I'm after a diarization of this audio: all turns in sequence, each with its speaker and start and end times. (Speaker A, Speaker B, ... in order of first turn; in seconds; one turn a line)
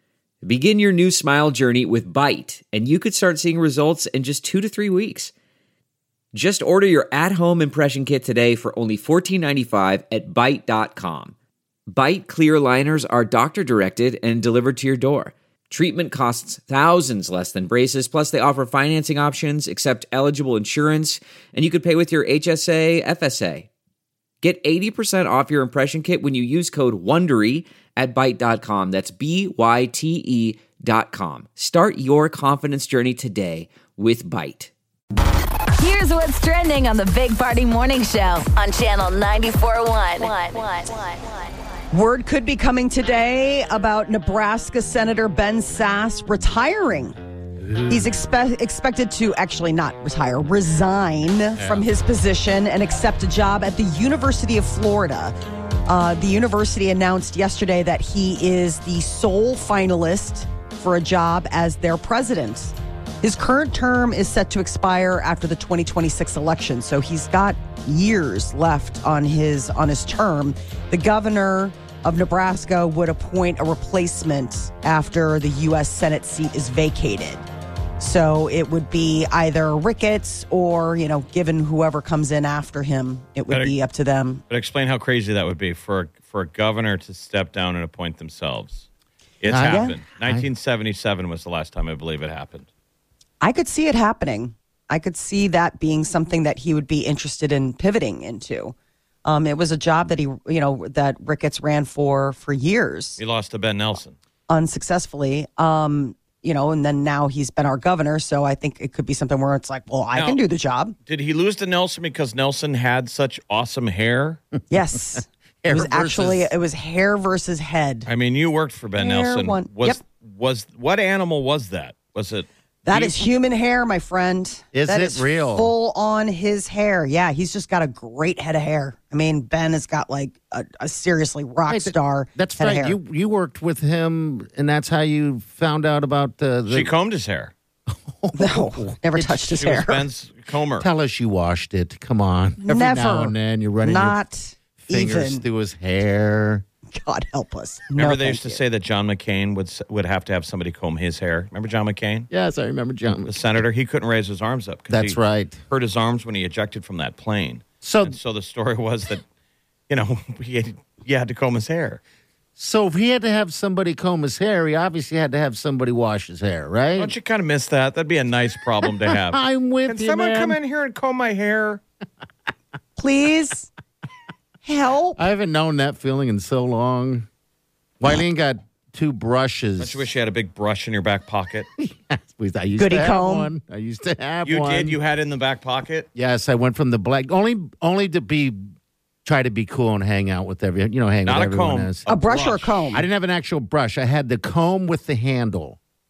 Speaker A: 0.4-5.3
Speaker A: 6.3-11.3
Speaker A: 11.9-23.7
Speaker A: 24.4-34.7
Speaker B: 35.8-41.3
Speaker C: 41.9-47.2
Speaker D: 47.6-48.1
Speaker C: 47.9-55.3
Speaker D: 51.6-51.9
Speaker C: 55.9-77.4
Speaker C: 78.0-84.4
Speaker E: 83.5-83.8
Speaker E: 84.5-88.8
Speaker E: 89.4-92.7
Speaker D: 89.5-90.5
Speaker C: 89.6-90.0
Speaker C: 93.4-103.2
Speaker E: 103.2-104.2
Speaker C: 104.5-110.9
Speaker E: 110.1-110.4
Speaker E: 111.1-114.4
Speaker C: 114.7-118.1
Speaker D: 115.6-116.5
Speaker E: 118.0-123.3
Speaker C: 119.0-120.0
Speaker C: 122.8-133.0
Speaker D: 124.7-125.7
Speaker D: 131.7-136.9
Speaker E: 136.7-137.5
Speaker D: 137.9-139.5
Speaker C: 138.3-140.0
Speaker E: 139.5-140.9
Speaker D: 140.8-144.2
Speaker C: 142.6-145.4
Speaker D: 144.8-146.7
Speaker C: 146.9-148.6
Speaker E: 147.9-152.3
Speaker D: 152.3-153.4
Speaker E: 153.2-159.2
Speaker D: 154.9-155.6
Speaker D: 157.8-158.2
Speaker E: 159.9-162.0
Speaker D: 162.6-167.1
Speaker E: 167.0-171.8
Speaker D: 168.8-170.6
Speaker C: 173.0-173.7
Speaker C: 174.7-175.2
Speaker D: 175.2-177.3
Speaker D: 178.0-180.1
Speaker E: 179.8-181.7
Speaker D: 181.8-185.0
Speaker C: 182.8-183.5
Speaker E: 184.4-186.1
Speaker D: 186.2-188.7
Speaker D: 189.2-192.0
Speaker E: 191.2-192.8
Speaker C: 192.1-193.1
Speaker D: 192.9-195.8